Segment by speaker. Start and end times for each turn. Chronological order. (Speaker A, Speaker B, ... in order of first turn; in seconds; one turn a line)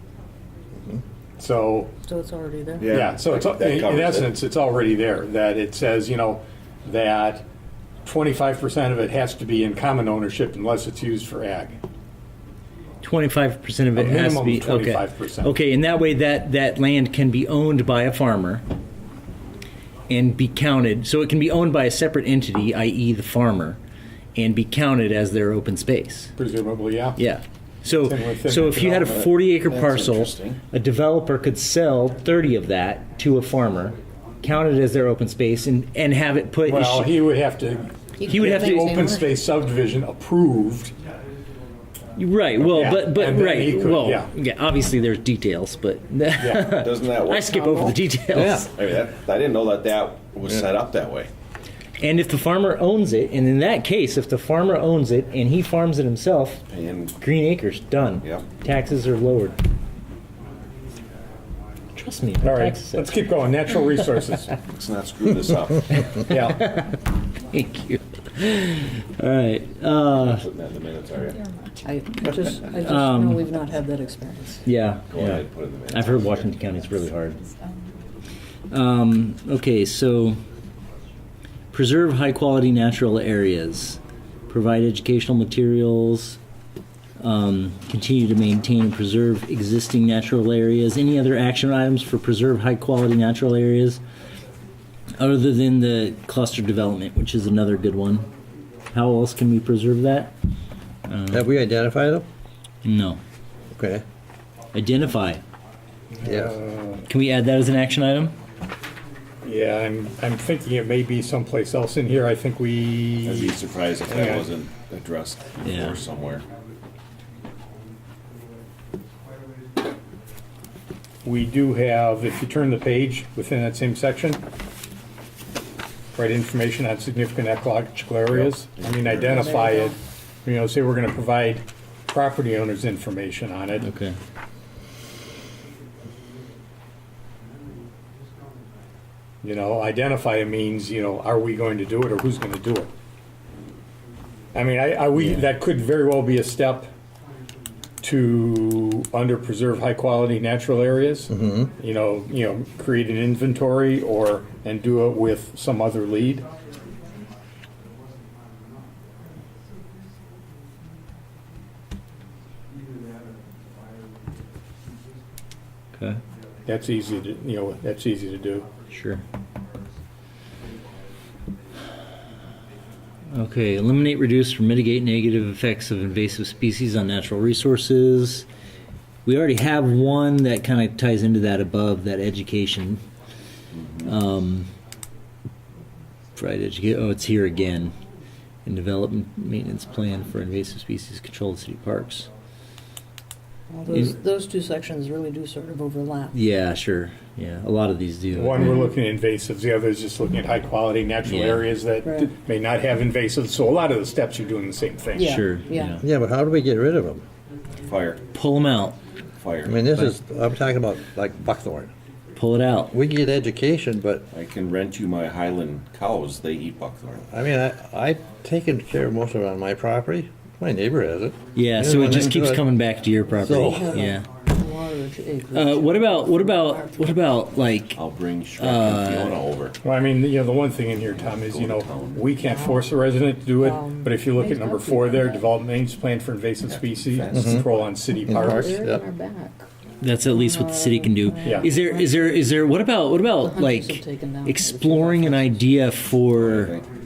Speaker A: 1.4-1.9
Speaker B: 2.1-2.9
Speaker C: 2.8-4.3
Speaker A: 2.9-7.5
Speaker A: 8.1-11.8
Speaker D: 13.0-18.6
Speaker A: 13.9-15.5
Speaker D: 20.1-23.8
Speaker D: 24.4-26.3
Speaker A: 26.4-27.2
Speaker D: 27.2-37.2
Speaker A: 28.0-29.3
Speaker C: 29.1-30.6
Speaker A: 36.7-40.9
Speaker D: 38.3-39.2
Speaker B: 38.4-39.2
Speaker D: 42.2-48.7
Speaker A: 42.6-44.3
Speaker A: 46.4-46.8
Speaker C: 46.7-51.3
Speaker E: 48.3-48.7
Speaker D: 52.0-56.6
Speaker C: 56.7-57.2
Speaker D: 57.2-59.6
Speaker D: 62.0-63.3
Speaker A: 62.4-64.5
Speaker C: 64.6-66.1
Speaker D: 65.9-70.5
Speaker A: 66.3-66.7
Speaker C: 70.2-71.5
Speaker B: 71.8-74.7
Speaker D: 72.8-73.5
Speaker D: 74.6-77.4
Speaker C: 75.1-76.5
Speaker D: 78.7-80.4
Speaker D: 81.7-86.4
Speaker D: 87.2-94.0
Speaker D: 95.2-98.3
Speaker D: 98.9-100.3
Speaker D: 101.1-101.5
Speaker E: 101.3-102.3
Speaker D: 102.8-103.2
Speaker E: 103.8-104.0
Speaker D: 104.7-105.4
Speaker A: 106.2-107.0
Speaker E: 106.2-106.6
Speaker D: 107.1-108.4
Speaker A: 109.4-114.5
Speaker C: 113.2-116.5
Speaker D: 115.7-116.0
Speaker A: 121.2-124.4
Speaker A: 126.2-133.9
Speaker C: 128.3-129.3
Speaker B: 129.3-129.9
Speaker D: 133.8-134.2
Speaker A: 139.4-142.9
Speaker A: 144.5-146.9
Speaker A: 148.0-156.5
Speaker E: 151.3-151.7
Speaker D: 166.0-166.2
Speaker A: 166.7-168.7
Speaker D: 168.9-169.2
Speaker D: 173.3-178.5
Speaker D: 179.3-183.0
Speaker C: 183.7-184.1
Speaker D: 184.0-184.7
Speaker D: 186.4-187.9
Speaker D: 188.7-192.3
Speaker B: 193.7-196.4
Speaker D: 193.9-194.2
Speaker D: 196.3-198.8
Speaker A: 198.3-205.4
Speaker B: 198.6-198.9
Speaker D: 201.2-201.7
Speaker B: 202.0-202.4
Speaker B: 205.1-206.0
Speaker D: 205.2-206.0
Speaker E: 206.0-207.2
Speaker C: 207.8-208.2
Speaker D: 208.3-209.0
Speaker C: 209.4-209.8
Speaker E: 209.7-211.9
Speaker D: 212.4-212.9
Speaker E: 212.9-214.3
Speaker C: 214.3-217.3
Speaker E: 217.3-222.7
Speaker D: 221.6-224.3
Speaker E: 223.4-224.1
Speaker B: 223.5-227.4
Speaker D: 225.5-228.1
Speaker C: 227.9-229.8
Speaker D: 228.6-229.4
Speaker A: 229.8-238.8
Speaker C: 231.1-232.4
Speaker B: 232.4-233.0
Speaker B: 233.6-235.5
Speaker C: 236.7-237.9
Speaker E: 237.3-237.7
Speaker E: 238.3-239.0
Speaker B: 238.6-239.7
Speaker D: 240.0-246.7
Speaker B: 240.3-242.4
Speaker B: 243.3-245.7
Speaker C: 246.3-246.9